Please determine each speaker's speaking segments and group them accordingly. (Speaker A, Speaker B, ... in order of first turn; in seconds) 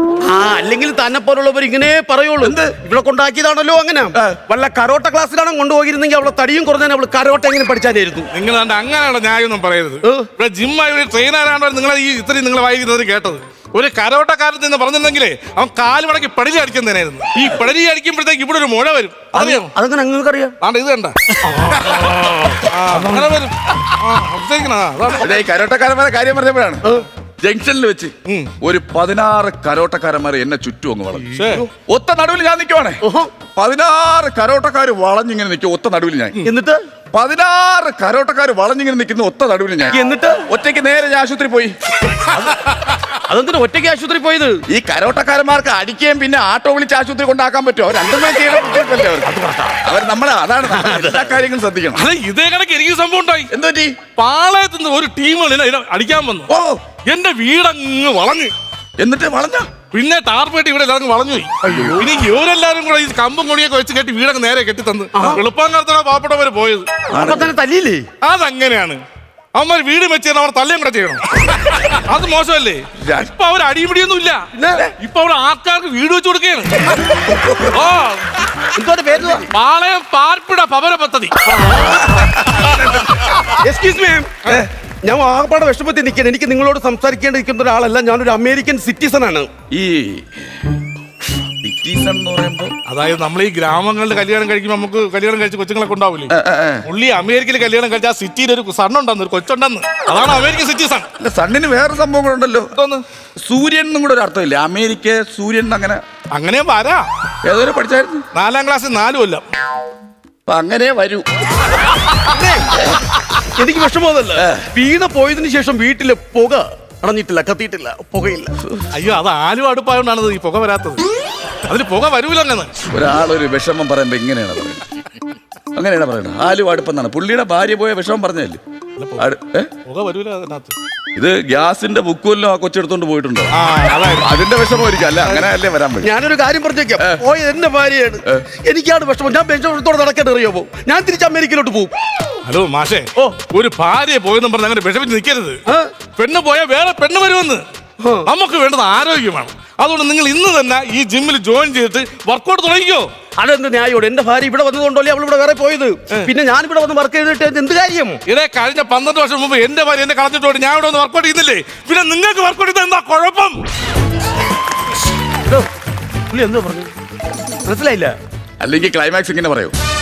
Speaker A: 0.2-8.3, 10.0-10.3, 19.3-20.6, 22.9-23.4, 31.4-31.7, 33.0-33.3, 36.4-36.8, 39.9-40.4, 43.2-44.6, 49.2-49.8, 50.7-51.3, 61.6-62.1, 65.1-65.4, 67.1-68.1, 74.5-74.9, 78.7-79.5, 83.5-84.4, 85.0-89.5, 112.2-112.8, 113.5-118.5, 136.0-141.9, 148.0-148.3, 153.4-158.2, 166.3-166.9, 167.7-168.2
Speaker B: 2.4-2.8, 25.2-26.9, 27.4-33.0, 33.5-36.4, 37.1-41.8, 44.7-52.0, 53.5-54.0, 56.5-56.8, 59.0-59.7, 67.1-67.5, 73.0-73.3, 81.7-83.1, 89.7-90.7, 91.3-92.7, 96.3-96.8, 101.2-102.7, 103.5-106.0, 107.5-108.2, 110.5-111.3, 114.4-114.7, 122.9-124.8, 125.8-128.6, 129.2-129.7, 131.2-133.5, 134.2-136.1, 168.6-169.7
Speaker C: 8.3-19.7, 20.6-25.3, 28.3-28.5, 31.3-31.6, 52.0-53.5, 54.2-56.5, 57.1-58.5, 59.9-66.9, 68.2-69.0, 69.5-74.5, 75.0-77.0, 77.6-78.4, 79.2-81.5, 92.9-96.3, 96.9-101.1, 102.8-103.0, 106.3-107.1, 108.3-109.5, 118.9-121.0, 121.7-122.7, 129.0-129.2, 129.9-130.8, 133.6-134.3, 135.2-135.5, 142.4-145.6, 146.2-147.6, 148.3-153.1, 158.3-163.6